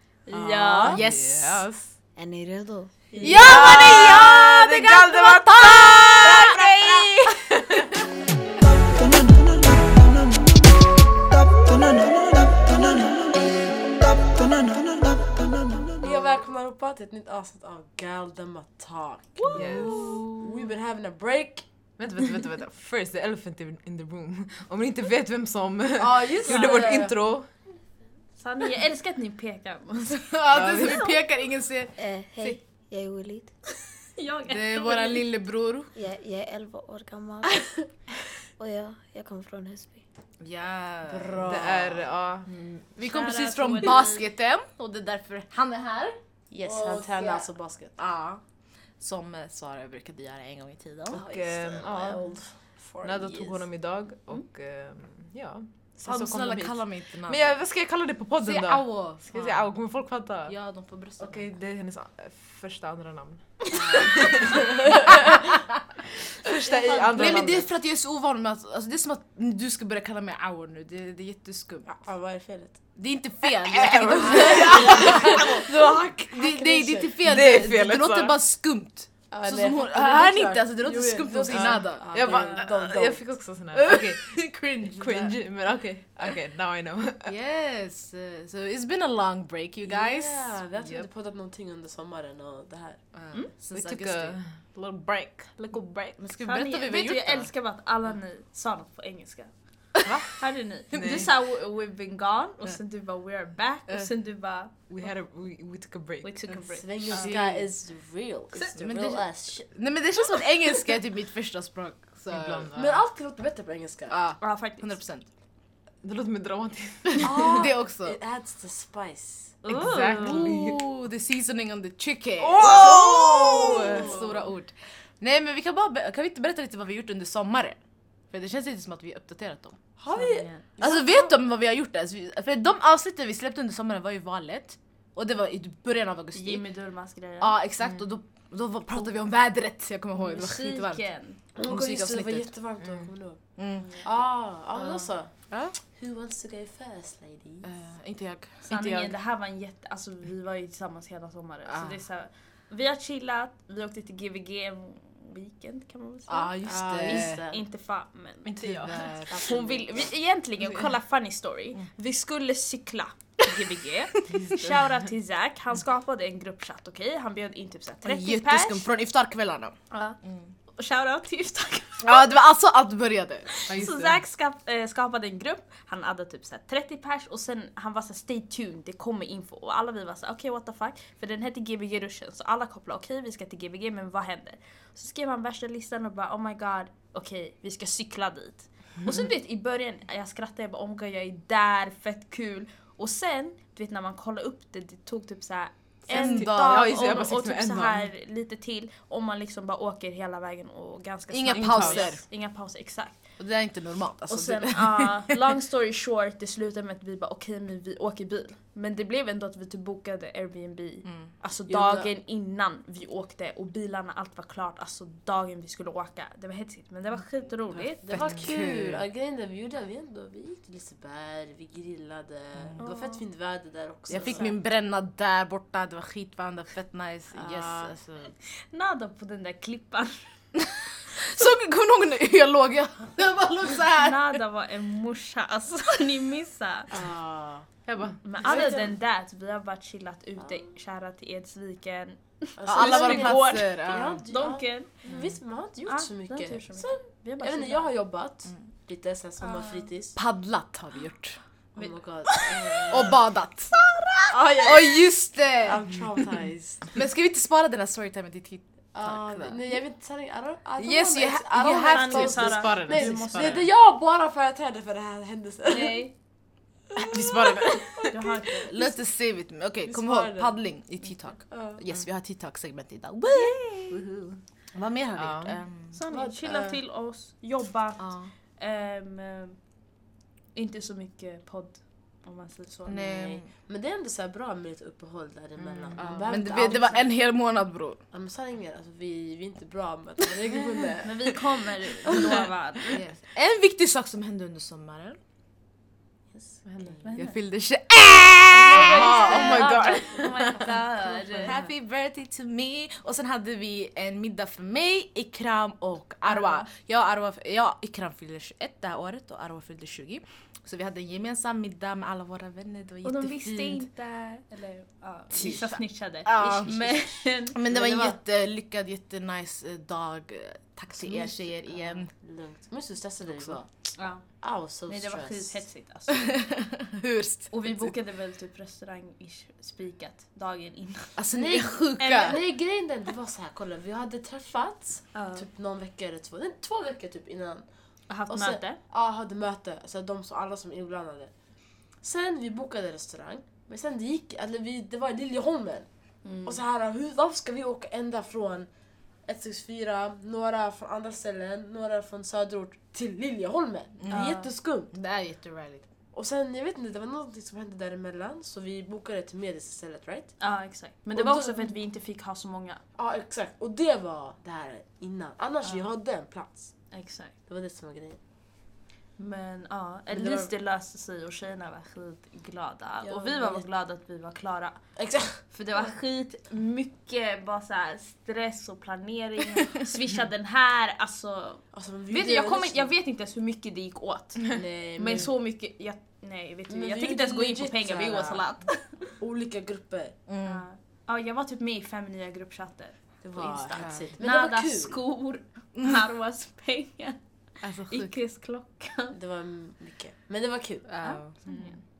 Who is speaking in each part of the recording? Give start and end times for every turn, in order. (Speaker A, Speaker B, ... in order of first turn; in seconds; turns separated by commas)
Speaker A: 0.2-1.0, Speaker B: 0.3-1.9, Speaker C: 0.8-1.6, Speaker D: 2.1-3.5, Speaker A: 3.1-3.5, Speaker C: 3.2-6.7, Speaker B: 3.2-8.0, Speaker E: 16.0-21.6, Speaker A: 19.5-20.1, Speaker B: 19.5-20.5, Speaker B: 22.0-27.5, Speaker E: 26.0-27.1, Speaker A: 26.5-26.8, Speaker A: 28.4-31.1, Speaker C: 30.3-32.6, Speaker B: 30.5-31.2, Speaker D: 32.0-33.5, Speaker A: 34.1-35.3, Speaker C: 34.5-35.9, Speaker D: 35.9-37.7, Speaker D: 38.6-40.0, Speaker C: 40.4-42.0, Speaker E: 41.1-42.0, Speaker B: 41.4-43.0, Speaker C: 43.0-47.5, Speaker A: 43.0-44.2, Speaker E: 46.5-48.0, Speaker C: 48.0-48.4, Speaker C: 49.0-51.2, Speaker E: 51.1-53.6, Speaker B: 51.1-60.5, Speaker C: 56.0-57.6, Speaker C: 58.4-59.7, Speaker C: 60.5-61.5, Speaker B: 61.2-65.5, Speaker E: 63.7-64.3, Speaker B: 66.4-67.7, Speaker A: 66.7-67.4, Speaker C: 67.1-72.0, Speaker E: 71.8-72.9, Speaker C: 73.0-75.6, Speaker B: 73.7-75.6, Speaker E: 74.1-77.1, Speaker C: 76.3-82.3, Speaker B: 77.2-78.3, Speaker E: 79.3-83.2, Speaker B: 81.5-87.3, Speaker A: 82.3-82.6, Speaker C: 83.7-85.4, Speaker C: 87.2-90.5, Speaker E: 89.8-93.1, Speaker B: 90.8-91.1, Speaker C: 93.1-94.4, Speaker B: 93.7-96.2, Speaker C: 96.2-97.5, Speaker A: 96.4-105.1, Speaker B: 100.9-101.3, Speaker B: 104.9-106.5, Speaker A: 106.2-107.3, Speaker E: 106.7-109.7, Speaker C: 107.1-107.7, Speaker C: 108.7-112.7, Speaker B: 112.3-113.0, Speaker E: 112.7-114.2, Speaker C: 114.1-115.2, Speaker A: 114.4-115.0, Speaker B: 116.0-117.5, Speaker C: 117.2-118.2, Speaker E: 117.2-119.6, Speaker A: 119.6-120.4, Speaker B: 119.7-120.8, Speaker C: 119.9-127.8, Speaker B: 122.4-124.3, Speaker E: 122.5-124.3, Speaker C: 128.3-129.8, Speaker E: 130.0-131.3, Speaker A: 130.1-130.6, Speaker C: 130.8-136.6, Speaker A: 136.3-137.5, Speaker C: 137.4-142.5, Speaker A: 140.2-141.4, Speaker E: 141.6-143.4, Speaker B: 142.8-143.1, Speaker C: 143.6-143.9, Speaker A: 143.8-144.1, Speaker E: 144.0-147.7, Speaker C: 144.7-145.8, Speaker C: 147.6-149.1, Speaker A: 148.6-168.8, Speaker C: 151.7-152.0, Speaker C: 156.3-157.4, Speaker E: 156.6-157.6, Speaker B: 158.4-159.1, Speaker C: 158.6-159.6, Speaker E: 159.3-159.9, Speaker C: 168.0-169.7, Speaker A: 169.9-170.2, Speaker A: 170.7-172.2, Speaker C: 172.0-173.5, Speaker A: 173.5-203.4, Speaker B: 173.7-174.2, Speaker C: 196.1-196.8, Speaker B: 196.2-198.1, Speaker C: 201.3-202.2, Speaker B: 201.5-202.1, Speaker C: 203.4-205.2, Speaker A: 204.3-218.2, Speaker C: 211.0-212.1, Speaker E: 218.0-224.6, Speaker C: 218.1-219.0, Speaker A: 222.8-223.2, Speaker C: 224.1-228.3, Speaker E: 227.3-227.9, Speaker A: 228.7-230.3, Speaker C: 231.2-234.4, Speaker A: 233.9-236.9, Speaker E: 236.9-237.7, Speaker B: 237.8-238.7, Speaker A: 238.2-244.9, Speaker E: 238.4-238.9, Speaker E: 242.6-250.2, Speaker C: 242.7-244.2, Speaker B: 245.1-245.3, Speaker A: 245.8-247.9, Speaker A: 249.4-249.9, Speaker C: 250.2-251.4, Speaker E: 251.7-253.2, Speaker A: 251.8-252.9, Speaker C: 252.9-253.8, Speaker A: 253.8-255.0, Speaker E: 254.3-254.8, Speaker C: 254.6-255.8, Speaker E: 255.6-256.9, Speaker C: 256.9-259.8, Speaker E: 258.9-266.1, Speaker C: 260.8-263.6, Speaker A: 261.6-263.6, Speaker B: 262.5-263.7, Speaker A: 265.7-266.1, Speaker B: 267.1-268.1, Speaker E: 267.4-268.4, Speaker A: 268.1-268.9, Speaker C: 268.7-273.9, Speaker E: 269.9-270.5, Speaker E: 271.5-271.8, Speaker A: 273.3-274.0, Speaker C: 274.7-276.0, Speaker B: 275.1-276.3, Speaker A: 275.9-279.7, Speaker E: 276.4-276.8, Speaker C: 278.0-278.3, Speaker A: 280.5-283.1, Speaker C: 282.9-283.5, Speaker E: 283.1-287.1, Speaker B: 285.6-286.4, Speaker C: 285.9-288.0, Speaker A: 286.5-287.0, Speaker E: 288.1-291.4, Speaker A: 291.0-293.0, Speaker E: 292.1-292.4, Speaker C: 292.9-295.2, Speaker E: 296.3-297.0, Speaker B: 296.6-297.0, Speaker A: 297.0-297.4, Speaker C: 297.2-299.9, Speaker E: 298.6-299.5, Speaker A: 298.8-301.6, Speaker B: 298.9-300.7, Speaker C: 301.4-313.9, Speaker A: 306.3-306.6, Speaker A: 313.0-317.6, Speaker C: 315.3-322.1, Speaker E: 316.6-318.1, Speaker E: 321.0-325.6, Speaker A: 323.9-326.4, Speaker C: 326.5-327.9, Speaker A: 327.5-331.3, Speaker C: 331.1-332.4, Speaker E: 331.4-345.9, Speaker A: 332.0-332.4, Speaker A: 335.1-335.5, Speaker A: 338.1-338.8, Speaker A: 346.2-346.6, Speaker E: 346.4-348.7, Speaker E: 349.2-354.9, Speaker C: 354.0-354.3, Speaker A: 354.1-354.5, Speaker C: 354.9-355.8, Speaker E: 356.1-360.4, Speaker A: 360.4-362.8, Speaker E: 361.1-361.8, Speaker E: 362.9-368.2, Speaker A: 366.9-367.3, Speaker A: 369.2-389.2, Speaker E: 370.1-370.5, Speaker E: 373.0-373.6, Speaker E: 374.9-375.4, Speaker E: 381.7-382.9, Speaker E: 384.5-385.3, Speaker E: 386.7-388.4, Speaker E: 389.2-390.2, Speaker C: 390.3-390.6, Speaker A: 390.4-399.1, Speaker E: 393.2-395.0, Speaker C: 393.7-394.1, Speaker C: 397.6-398.1, Speaker E: 399.1-401.0, Speaker C: 400.9-401.3, Speaker A: 401.0-401.8, Speaker B: 401.4-401.8